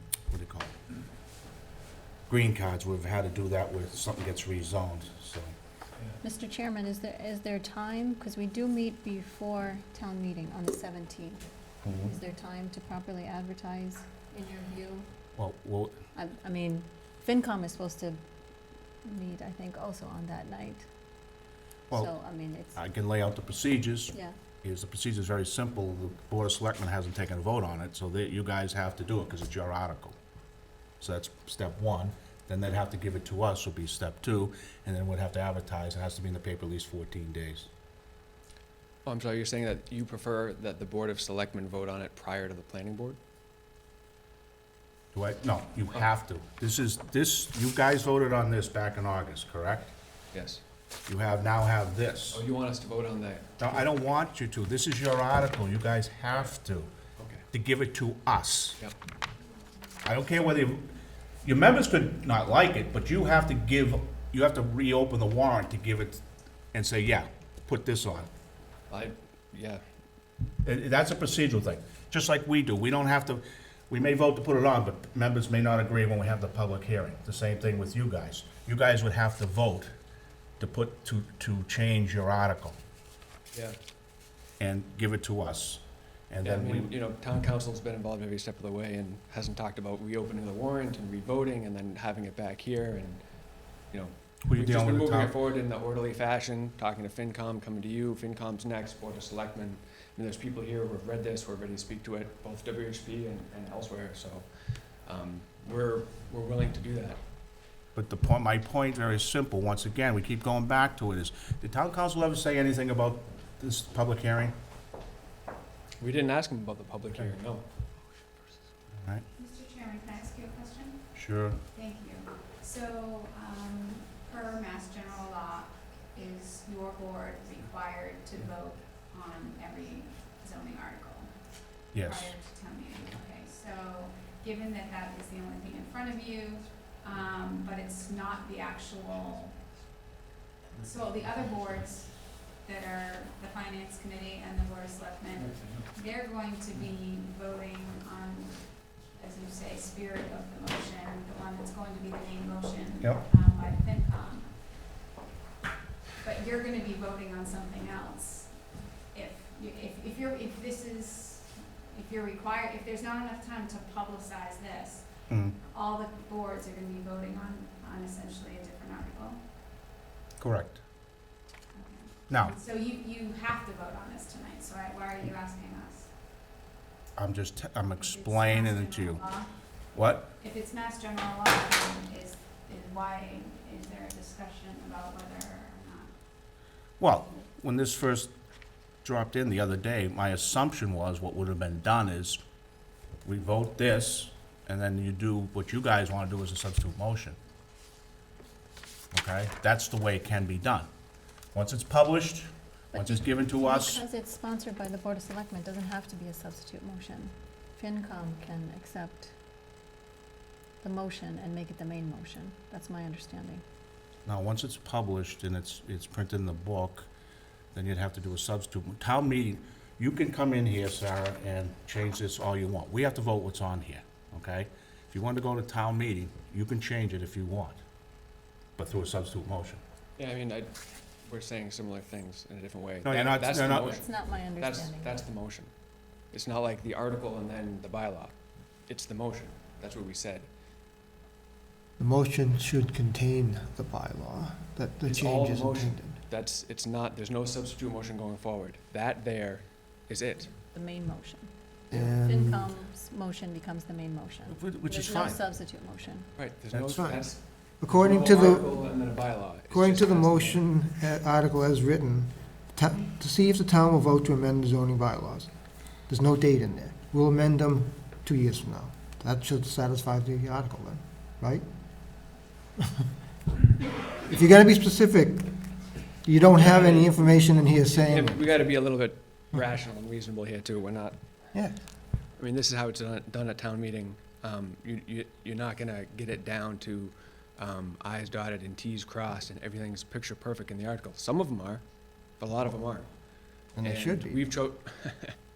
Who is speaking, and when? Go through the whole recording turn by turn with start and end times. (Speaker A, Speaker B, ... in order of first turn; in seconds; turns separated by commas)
Speaker A: 0.3-0.7, Speaker A: 2.3-5.5, Speaker B: 6.2-11.4, Speaker A: 11.8-12.1, Speaker B: 12.0-15.1, Speaker A: 15.4-16.0, Speaker B: 16.2-18.2, Speaker B: 19.1-20.9, Speaker B: 21.9-22.8, Speaker A: 22.8-30.2, Speaker A: 31.0-37.7, Speaker C: 39.0-43.2, Speaker A: 45.1-49.9, Speaker C: 50.3-50.6, Speaker A: 51.1-52.4, Speaker C: 52.3-53.7, Speaker A: 53.6-56.9, Speaker C: 57.2-57.4, Speaker A: 57.5-58.8, Speaker A: 60.0-60.9, Speaker A: 61.4-66.2, Speaker A: 66.7-68.3, Speaker C: 68.9-69.8, Speaker A: 70.6-79.9, Speaker A: 80.6-82.8, Speaker A: 84.6-86.9, Speaker C: 86.4-93.2, Speaker C: 93.9-104.5, Speaker A: 94.5-95.3, Speaker C: 105.0-107.2, Speaker A: 108.0-114.5, Speaker C: 116.0-117.7, Speaker D: 119.4-121.1, Speaker A: 121.1-121.6, Speaker D: 121.7-131.3, Speaker A: 131.9-132.3, Speaker D: 132.1-139.6, Speaker D: 140.8-148.6, Speaker D: 149.1-154.5, Speaker D: 156.2-158.5, Speaker D: 159.1-165.1, Speaker A: 165.3-165.6, Speaker D: 165.7-169.4, Speaker A: 170.4-170.8, Speaker D: 171.7-176.1, Speaker A: 172.3-172.6, Speaker A: 177.2-179.3, Speaker D: 178.0-179.5, Speaker A: 179.9-180.3, Speaker D: 180.4-186.1, Speaker A: 187.0-188.3, Speaker A: 189.0-192.4, Speaker A: 193.2-197.4, Speaker A: 199.1-200.9, Speaker A: 201.5-204.0, Speaker B: 202.9-209.3, Speaker B: 210.8-213.6, Speaker A: 214.3-217.1, Speaker A: 217.7-227.8, Speaker A: 228.8-229.8, Speaker C: 230.2-230.7, Speaker C: 231.2-235.7, Speaker A: 233.1-234.0, Speaker B: 233.9-235.2, Speaker C: 236.3-238.3, Speaker C: 238.9-240.5, Speaker E: 242.0-246.2, Speaker C: 245.1-250.6, Speaker B: 250.7-256.3, Speaker E: 251.9-252.7, Speaker A: 254.5-255.4, Speaker C: 256.4-260.6, Speaker E: 256.8-257.3, Speaker E: 257.8-258.7, Speaker E: 259.7-265.5, Speaker E: 266.1-271.6, Speaker E: 274.2-275.5, Speaker E: 276.2-278.4, Speaker C: 276.6-281.2, Speaker C: 282.4-291.8, Speaker C: 292.4-293.1, Speaker E: 293.8-294.4, Speaker C: 293.8-295.4